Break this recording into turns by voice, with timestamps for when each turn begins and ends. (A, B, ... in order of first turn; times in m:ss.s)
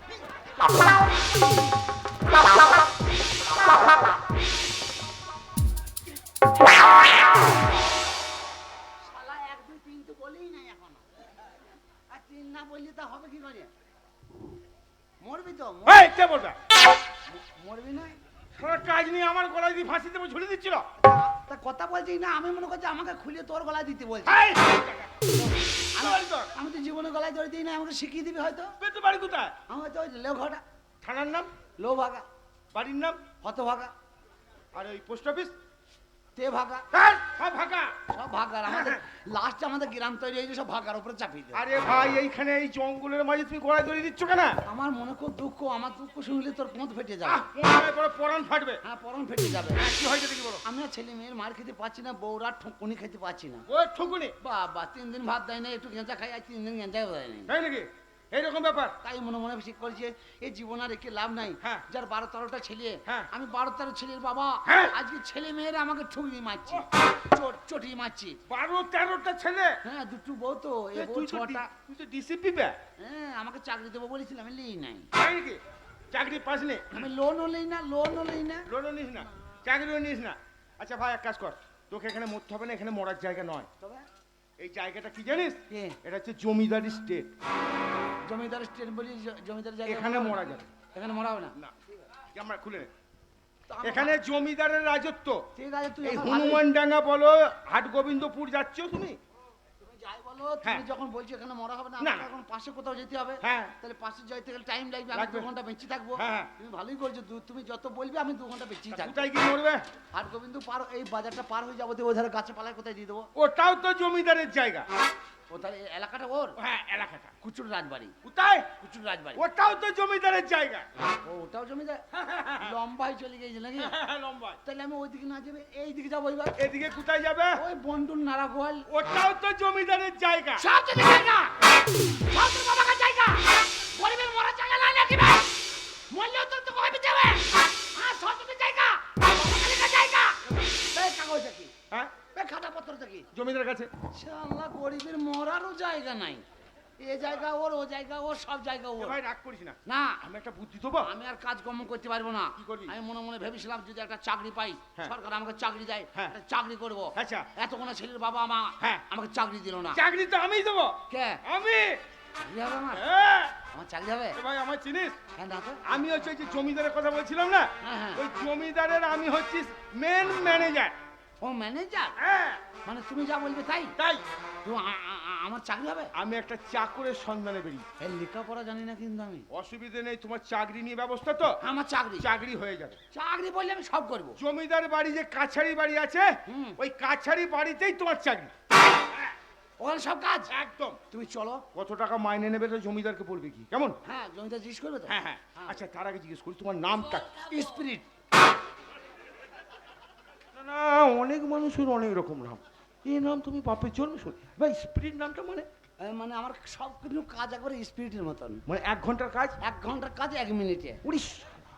0:09.0-0:11.0 A
0:12.1-0:13.7 A
0:15.2-0:16.1 A
0:15.9-0:16.6 B
0:17.3-0:18.2 A
0:18.5-0:20.9 B
0:21.0-0:24.4 A
0:24.2-0:25.1 B
0:25.3-0:28.8 A
0:26.0-0:26.5 B
0:28.8-0:29.6 B
0:29.7-0:30.6 A
0:31.0-0:31.5 B
0:31.8-0:32.3 A
0:32.7-0:33.2 B
0:33.4-0:33.9 A
0:34.7-0:35.5 B
0:36.4-0:36.9 A
0:36.9-0:38.0 B
0:38.1-0:41.6 A
0:38.7-0:39.0 B
0:41.5-0:44.6 B
0:44.7-0:47.5 A
0:47.2-0:48.8 B
0:48.8-0:49.9 A
0:49.8-0:50.6 B
0:50.6-0:53.7 A
0:53.7-0:54.4 B
0:54.4-0:57.5 A
0:57.5-0:59.0 B
0:59.0-1:08.4 A
1:04.7-1:05.0 B
1:08.5-1:09.8 B
1:09.8-1:11.7 A
1:11.0-1:12.8 B
1:13.0-1:15.1 A
1:15.2-1:17.1 B
1:16.9-1:18.7 A
1:18.7-1:23.7 B
1:23.8-1:24.0 A
1:24.6-1:27.3 B
1:25.7-1:26.0 A
1:28.2-1:31.6 A
1:29.9-1:30.7 B
1:31.6-1:32.9 B
1:33.7-1:34.2 A
1:33.8-1:35.5 B
1:35.6-1:36.6 A
1:36.0-1:39.2 B
1:39.8-1:49.3 A
1:42.0-1:42.3 B
1:43.4-1:43.8 B
1:45.1-1:45.5 B
1:46.2-1:46.5 B
1:48.9-1:49.8 B
1:50.1-1:53.3 A
1:53.4-1:54.9 B
1:55.5-1:56.6 A
1:56.6-1:57.4 B
1:57.4-1:58.2 A
1:58.2-1:58.7 B
1:58.8-1:59.4 A
1:59.4-2:00.9 B
2:01.2-2:02.1 A
2:02.1-2:02.8 B
2:02.6-2:04.0 A
2:03.8-2:04.6 B
2:04.6-2:06.6 A
2:06.6-2:07.6 B
2:07.6-2:08.9 A
2:08.9-2:10.7 B
2:10.6-2:15.6 A
2:16.1-2:21.7 A
2:21.9-2:22.2 B
2:22.3-2:23.3 A
2:23.3-2:23.9 B
2:24.1-2:26.4 A
2:27.0-2:29.2 A
2:29.0-2:31.1 B
2:29.9-2:30.2 A
2:31.0-2:40.0 A
2:32.6-2:33.0 B
2:37.2-2:37.5 B
2:39.9-2:42.0 B
2:41.1-2:41.4 A
2:42.4-2:43.1 A
2:42.9-2:43.6 B
2:43.7-2:44.4 A
2:44.4-2:45.2 B
2:45.4-2:45.8 A
2:45.9-2:51.0 B
2:47.8-2:48.2 A
2:51.4-2:52.2 A
2:52.2-2:52.6 B
2:52.8-2:54.0 A
2:54.0-2:54.2 B
2:54.6-2:56.1 A
2:56.2-2:57.9 B
2:58.0-2:59.5 A
2:59.5-3:01.6 B
3:01.6-3:02.3 A
3:02.2-3:03.0 B
3:03.1-3:04.4 A
3:04.4-3:08.5 B
3:06.5-3:06.8 A
3:09.8-3:10.5 A
3:10.5-3:11.0 B
3:11.1-3:11.7 A
3:11.7-3:14.0 B
3:14.0-3:15.8 A
3:15.1-3:17.3 B
3:17.2-3:18.1 A
3:20.5-3:25.7 B
3:26.0-3:28.6 A
3:28.7-3:29.6 B
3:29.6-3:31.0 A
3:31.0-3:31.5 B